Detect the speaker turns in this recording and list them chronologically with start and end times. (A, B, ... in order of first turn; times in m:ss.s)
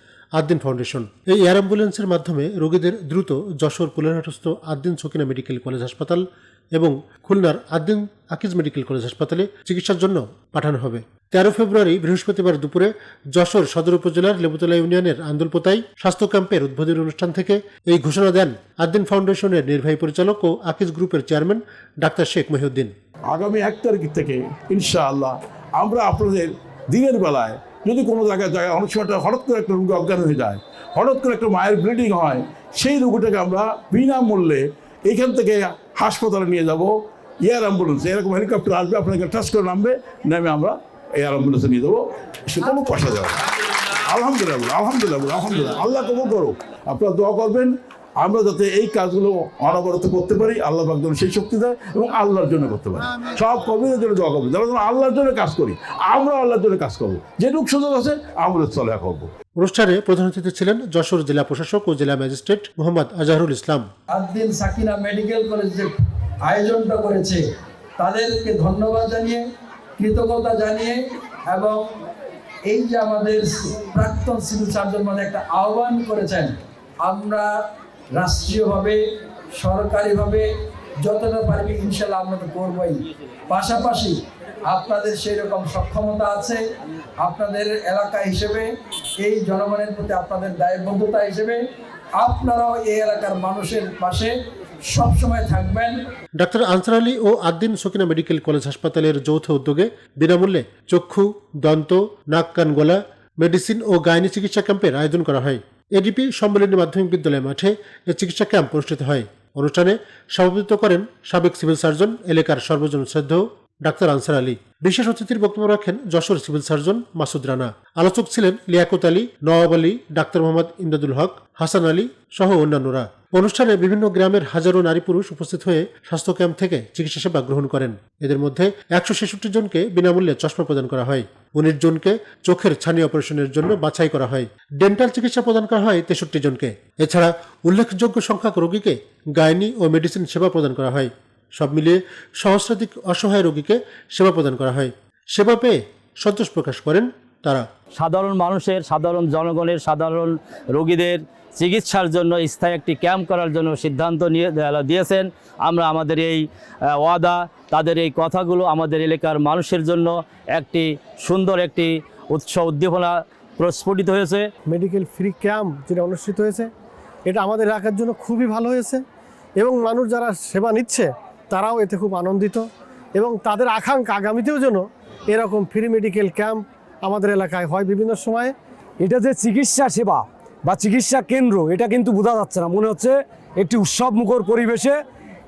0:00.4-0:06.2 A
0:06.7-0:22.9 A
0:23.3-0:59.3 B
0:59.6-1:03.9 A
1:04.1-1:07.4 C
1:08.0-1:09.4 C
1:10.0-1:11.9 C
1:12.6-1:17.6 C
1:18.2-1:19.0 C
1:19.5-1:20.5 C
1:21.0-1:26.6 C
1:27.2-1:31.6 C
1:32.2-1:34.3 C
1:34.9-1:36.0 C
1:36.4-2:27.6 A
2:28.0-2:44.4 D
2:44.7-2:46.7 E
2:47.3-2:49.0 E
2:49.6-2:58.5 E
2:59.0-3:05.0 F